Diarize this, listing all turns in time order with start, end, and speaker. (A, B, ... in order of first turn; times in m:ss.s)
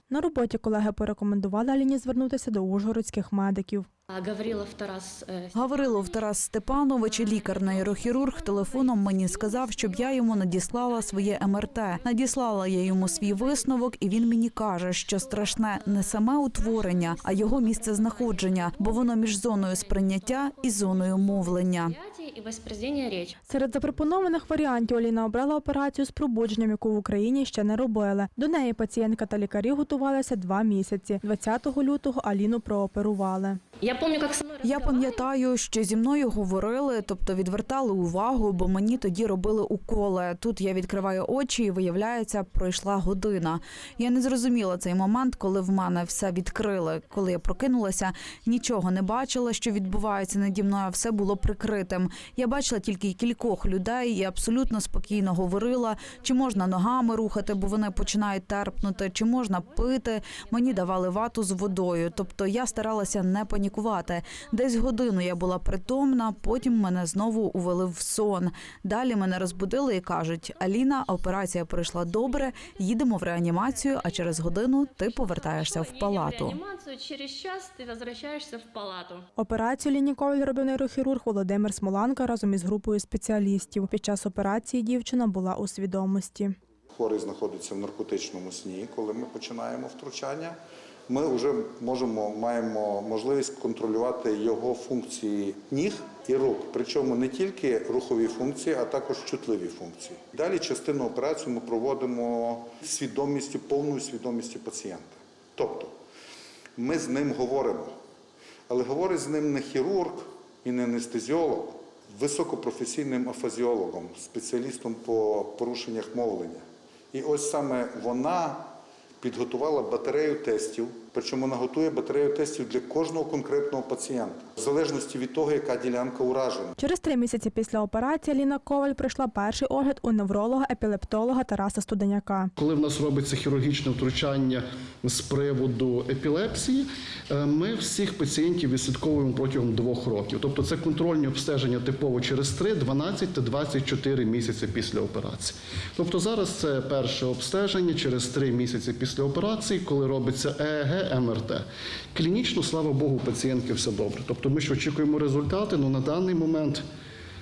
0:00.1-0:03.9 A
0:04.1-0:06.3 B
0:05.5-0:22.0 C
0:07.0-0:14.5 B
0:15.1-0:23.4 B
0:23.4-0:33.6 A
0:33.8-0:35.3 B
0:34.6-1:16.6 C
0:37.2-0:39.2 B
0:42.9-0:44.8 B
0:45.6-0:47.7 B
0:49.5-0:52.7 B
0:53.4-0:53.7 B
0:54.3-1:08.4 B
1:09.3-1:19.3 B
1:19.4-1:26.6 A
1:26.9-1:30.6 D
1:31.1-1:46.0 D
1:46.8-1:47.9 D
1:48.7-1:56.6 D
1:57.1-2:06.8 D
2:06.8-2:12.5 A
2:12.6-2:36.8 E